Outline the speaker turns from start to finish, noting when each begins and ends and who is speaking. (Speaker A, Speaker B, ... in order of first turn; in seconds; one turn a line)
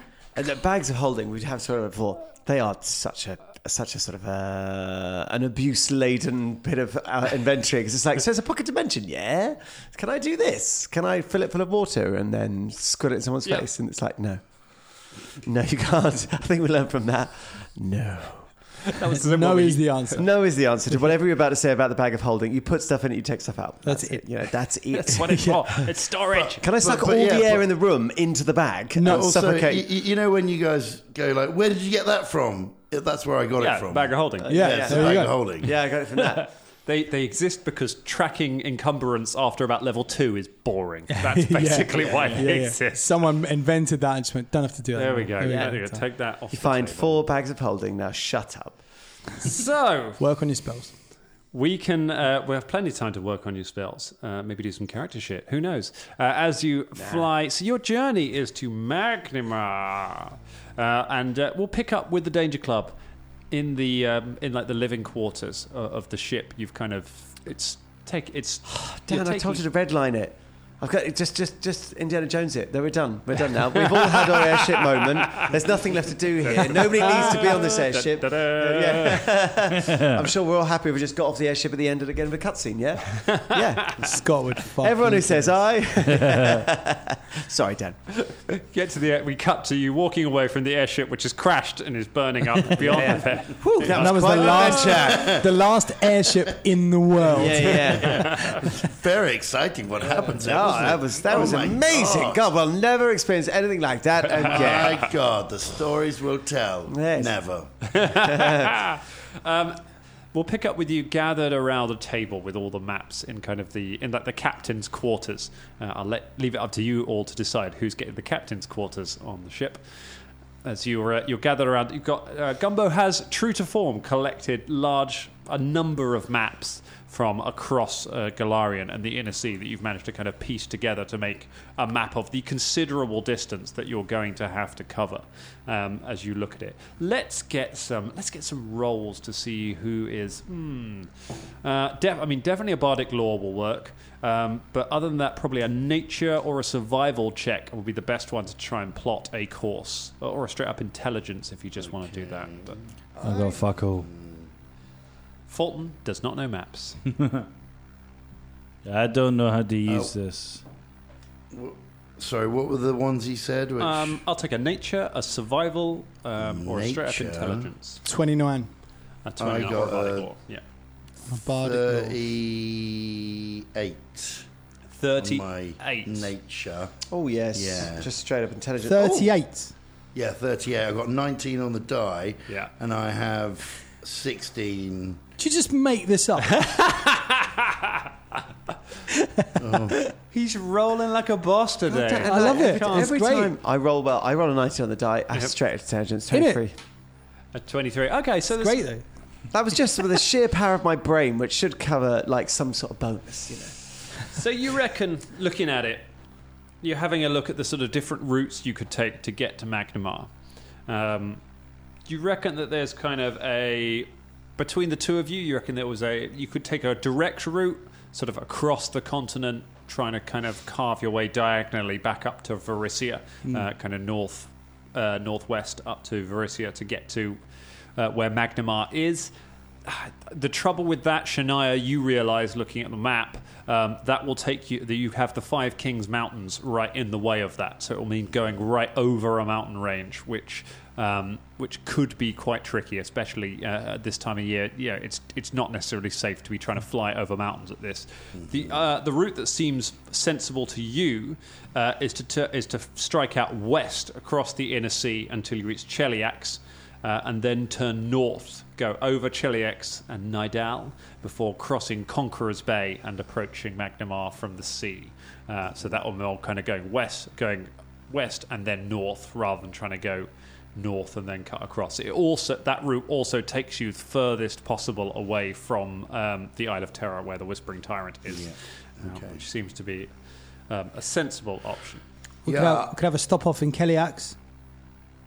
Speaker A: 0.3-14.9
Speaker A: 15.4-18.5
Speaker B: 18.9-20.2
Speaker C: 19.2-20.2
Speaker A: 20.2-25.5
Speaker C: 23.8-24.3
Speaker B: 24.9-26.6
Speaker C: 25.2-25.6
Speaker D: 26.3-27.7
Speaker A: 26.6-29.9
Speaker C: 28.9-29.3
Speaker D: 29.0-35.7
Speaker B: 33.6-34.8
Speaker A: 34.4-36.5
Speaker C: 34.5-35.4
Speaker B: 36.9-43.1
Speaker C: 41.1-46.0
Speaker A: 42.0-42.4
Speaker B: 45.0-47.2
Speaker A: 45.4-45.8
Speaker A: 46.5-48.8
Speaker B: 49.4-50.2
Speaker C: 50.2-50.9
Speaker B: 51.5-63.0
Speaker A: 57.0-57.3
Speaker B: 63.5-69.6
Speaker A: 69.1-84.1
Speaker B: 73.8-75.5
Speaker B: 76.4-79.3
Speaker E: 79.8-80.2
Speaker B: 83.3-83.7
Speaker C: 84.0-85.5
Speaker A: 84.8-88.4
Speaker E: 86.2-86.6
Speaker B: 88.7-95.0
Speaker A: 92.8-95.4
Speaker C: 93.8-98.2
Speaker D: 95.0-95.5
Speaker A: 97.3-98.5
Speaker B: 98.0-98.6
Speaker D: 98.2-102.5
Speaker A: 100.3-105.0
Speaker B: 104.4-105.0
Speaker D: 104.4-107.7
Speaker A: 106.9-107.3
Speaker B: 107.9-109.8
Speaker A: 108.1-108.8
Speaker B: 110.3-119.8
Speaker B: 120.6-141.1
Speaker B: 141.6-152.8
Speaker D: 151.8-152.8
Speaker E: 153.2-154.1
Speaker D: 154.0-154.5
Speaker B: 155.5-157.0
Speaker E: 157.2-157.4
Speaker E: 158.8-160.6
Speaker D: 159.9-160.1
Speaker D: 161.5-164.2
Speaker B: 163.8-168.0
Speaker D: 166.4-167.7
Speaker C: 168.1-168.7
Speaker B: 169.2-170.6
Speaker D: 169.4-170.3
Speaker C: 171.3-172.2
Speaker D: 171.6-174.4
Speaker B: 175.0-176.3
Speaker D: 175.2-176.9
Speaker A: 177.1-179.3
Speaker D: 177.5-178.1
Speaker C: 178.9-179.7
Speaker D: 180.2-185.2
Speaker C: 185.4-186.6
Speaker B: 186.6-187.8
Speaker D: 189.6-190.0
Speaker B: 190.3-193.1
Speaker A: 191.9-196.7
Speaker C: 192.2-193.5
Speaker C: 196.3-196.6
Speaker B: 197.5-198.9
Speaker C: 198.5-199.0
Speaker A: 199.5-203.8
Speaker B: 204.3-206.1
Speaker B: 206.8-210.3
Speaker B: 210.9-211.4
Speaker B: 212.1-227.4
Speaker B: 228.0-229.3
Speaker B: 229.9-280.1
Speaker D: 278.3-279.4
Speaker B: 280.7-282.0
Speaker C: 282.4-284.4
Speaker D: 282.5-282.9